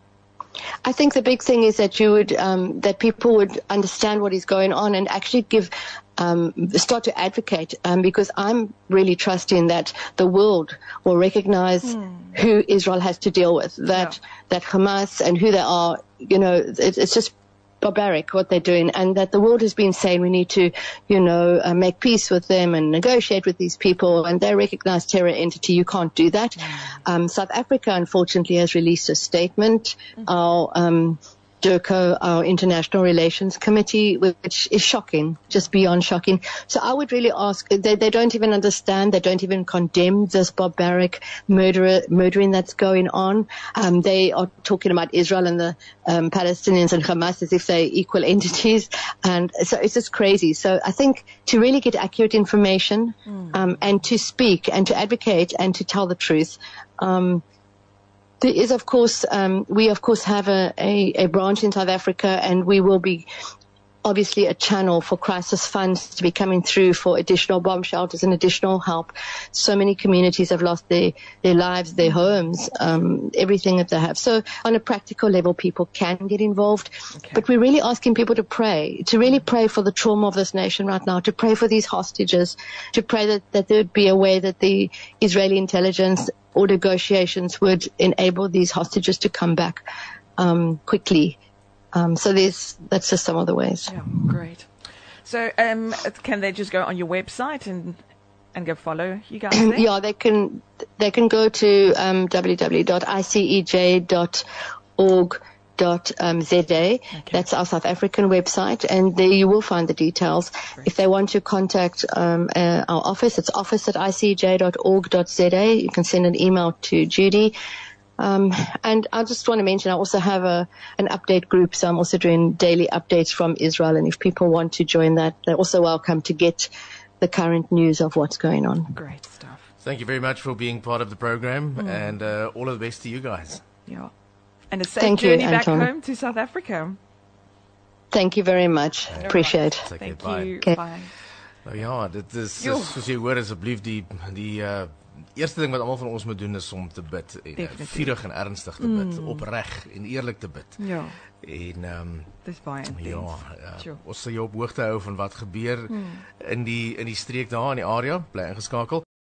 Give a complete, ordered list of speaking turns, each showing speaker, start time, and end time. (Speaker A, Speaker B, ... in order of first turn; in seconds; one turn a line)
Speaker A: 0.8-57.4
Speaker B: 11.9-12.3
Speaker A: 58.4-63.3
Speaker A: 64.0-89.8
Speaker B: 77.1-77.4
Speaker A: 90.4-91.4
Speaker A: 91.9-93.9
Speaker B: 93.9-94.7
Speaker B: 95.2-98.0
Speaker B: 98.5-99.8
Speaker A: 99.5-104.5
Speaker A: 105.0-117.5
Speaker B: 107.1-107.4
Speaker A: 118.2-128.9
Speaker B: 128.9-129.7
Speaker C: 129.8-133.6
Speaker B: 131.8-132.1
Speaker B: 133.8-134.1
Speaker B: 134.7-137.0
Speaker A: 135.0-135.9
Speaker A: 138.1-139.9
Speaker C: 139.1-140.6
Speaker B: 139.1-141.1
Speaker C: 141.6-159.0
Speaker B: 142.6-143.0
Speaker B: 147.6-148.2
Speaker B: 148.8-149.4
Speaker B: 150.8-151.2
Speaker B: 152.4-154.0
Speaker B: 155.9-156.2